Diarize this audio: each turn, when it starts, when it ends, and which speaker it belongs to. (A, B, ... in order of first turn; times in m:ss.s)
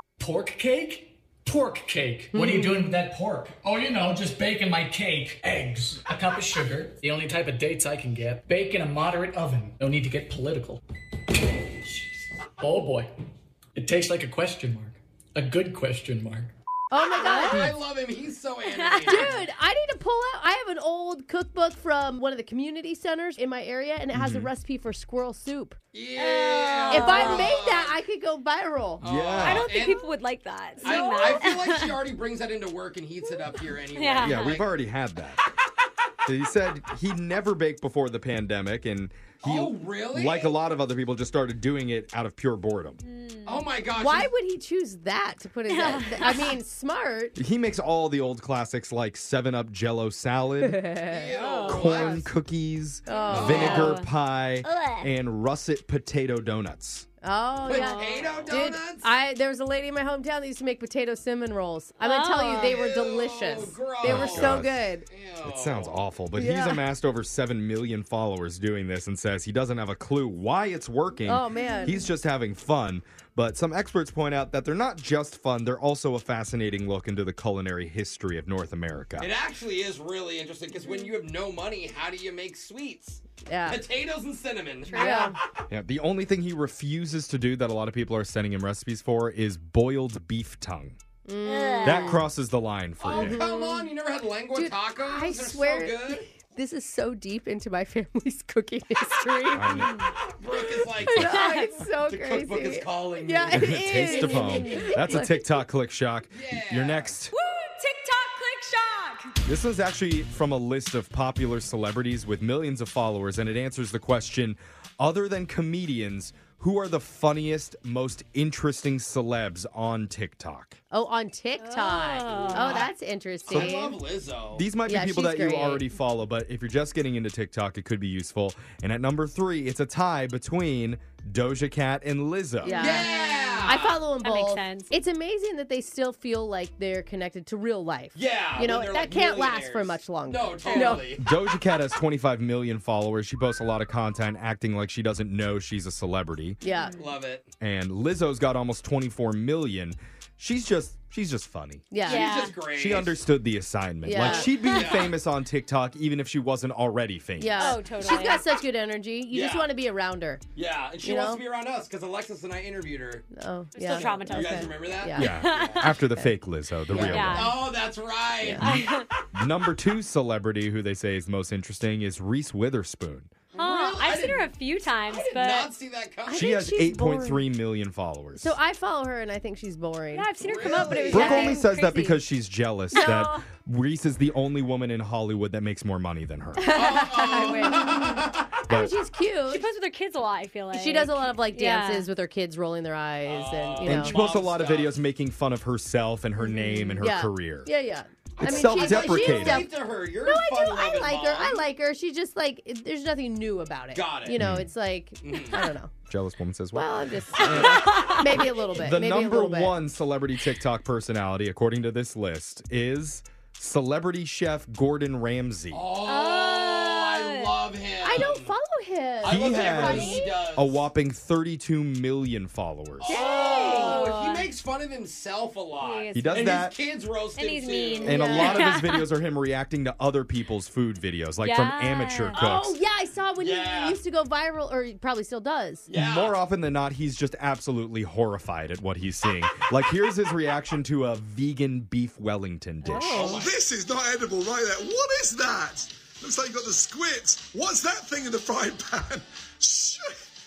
0:00.2-0:10.8 A
0:02.3-0:02.9 B
0:11.6-0:13.1 A
0:13.7-0:16.5 A
0:16.9-0:17.6 B
0:17.1-0:19.3 C
0:17.3-0:17.7 D
0:18.7-0:19.4 D
0:19.1-0:25.8 B
0:24.1-0:24.5 E
0:25.9-0:28.0 C
0:26.2-0:27.5 D
0:26.9-0:29.0 B
0:29.0-0:29.7 E
0:29.0-0:30.0 C
0:29.4-0:32.0 D
0:30.8-0:34.6 C
0:33.9-0:34.6 D
0:34.2-0:35.4 E
0:36.2-0:43.0 E
0:39.4-0:40.5 C
0:43.0-0:43.7 D
0:43.4-0:44.3 C
0:44.0-0:47.3 B
0:45.7-0:46.6 D
0:47.4-0:50.8 E
0:50.6-0:51.7 B
0:51.1-0:52.3 C
0:51.3-0:52.2 D
0:51.7-0:57.0 E
0:53.0-0:54.0 B
0:53.1-0:54.1 D
0:53.3-0:54.0 C
0:54.6-0:55.1 D
0:57.2-1:05.1 B
0:57.6-0:59.1 C
0:57.7-0:58.5 D
1:02.0-1:02.8 D
1:02.6-1:06.0 C
1:04.0-1:04.9 E
1:05.4-1:19.3 E
1:06.3-1:06.8 B
1:11.2-1:12.0 B
1:19.2-1:25.4 C
1:23.4-1:23.8 B
1:24.9-1:25.4 D
1:24.9-1:25.3 B
1:25.7-1:31.0 E
1:31.3-1:32.2 B
1:31.4-1:32.2 D
1:31.8-1:33.4 E
1:33.0-1:36.3 C
1:33.1-1:33.9 B
1:34.5-1:39.9 B
1:39.5-1:40.0 E
1:39.7-1:40.1 D
1:40.3-1:44.0 C
1:40.5-1:45.6 B
1:41.1-1:41.3 E
1:41.2-1:41.7 D
1:43.5-1:47.3 E
1:44.1-1:44.8 D
1:46.3-1:47.2 C
1:47.3-1:49.3 D
1:49.4-2:00.8 E
2:00.9-2:04.0 B
2:01.6-2:02.9 D
2:02.5-2:02.9 C
2:03.5-2:03.7 E
2:03.5-2:04.7 C
2:04.5-2:12.8 E
2:04.8-2:05.8 B
2:12.6-2:13.1 B
2:12.6-2:14.9 D
2:12.8-2:14.0 C
2:13.6-2:21.1 B
2:18.1-2:21.3 C
2:20.6-2:21.1 D
2:21.2-2:26.6 E
2:26.6-2:27.0 B
2:26.6-2:27.0 D
2:27.0-2:27.5 C
2:27.6-2:31.9 E
2:31.9-2:32.4 B
2:32.0-2:32.6 D
2:32.0-2:33.2 C
2:32.7-2:37.8 E
2:34.0-2:34.7 B
2:34.2-2:35.2 C
2:37.4-2:40.4 B
2:37.6-2:38.4 D
2:39.3-2:39.7 C
2:40.5-2:43.3 C
2:41.0-2:41.4 B
2:43.3-2:45.4 B
2:43.8-2:46.0 D
2:43.9-2:46.0 C
2:45.1-2:47.5 E
2:46.0-2:46.3 B
2:46.9-2:47.3 B
2:47.0-2:47.6 D
2:47.2-2:49.0 C
2:48.4-2:48.7 B
2:48.6-2:49.1 D
2:49.3-2:53.3 E
2:53.5-2:54.5 C
2:53.6-2:55.7 D
2:55.1-2:56.5 C
2:56.3-2:57.4 B
2:56.3-2:58.6 E
2:58.4-3:01.6 B
3:00.1-3:02.2 D
3:00.4-3:01.4 C
3:01.1-3:06.7 E
3:02.9-3:03.4 D
3:06.6-3:09.7 B
3:06.7-3:08.6 C
3:08.7-3:08.9 E
3:09.5-3:12.1 D
3:10.7-3:14.2 B
3:13.2-3:14.9 C
3:13.8-3:17.7 E
3:16.4-3:25.9 B
3:18.4-3:19.7 E
3:18.7-3:21.6 C
3:23.9-3:24.4 C
3:24.4-3:24.7 E
3:25.2-3:25.7 C
3:26.1-3:35.8 E
3:26.7-3:29.8 B
3:27.5-3:28.4 D
3:35.7-3:38.5 C
3:36.0-3:37.6 D
3:38.0-3:40.2 B
3:39.2-3:40.9 C
3:39.2-3:43.2 E
3:39.7-3:40.3 D
3:43.0-3:48.1 C
3:43.0-3:44.5 D
3:43.1-3:44.1 B
3:45.8-3:46.6 D
3:46.1-3:46.8 E
3:47.4-3:49.0 D
3:48.0-3:52.8 E
3:48.0-3:48.7 B
3:51.4-3:52.4 D
3:52.4-3:55.9 B
3:53.4-3:54.0 C
3:55.9-3:56.4 C
3:55.9-4:03.4 E
4:02.8-4:03.4 B
4:02.9-4:03.3 D
4:03.1-4:10.1 F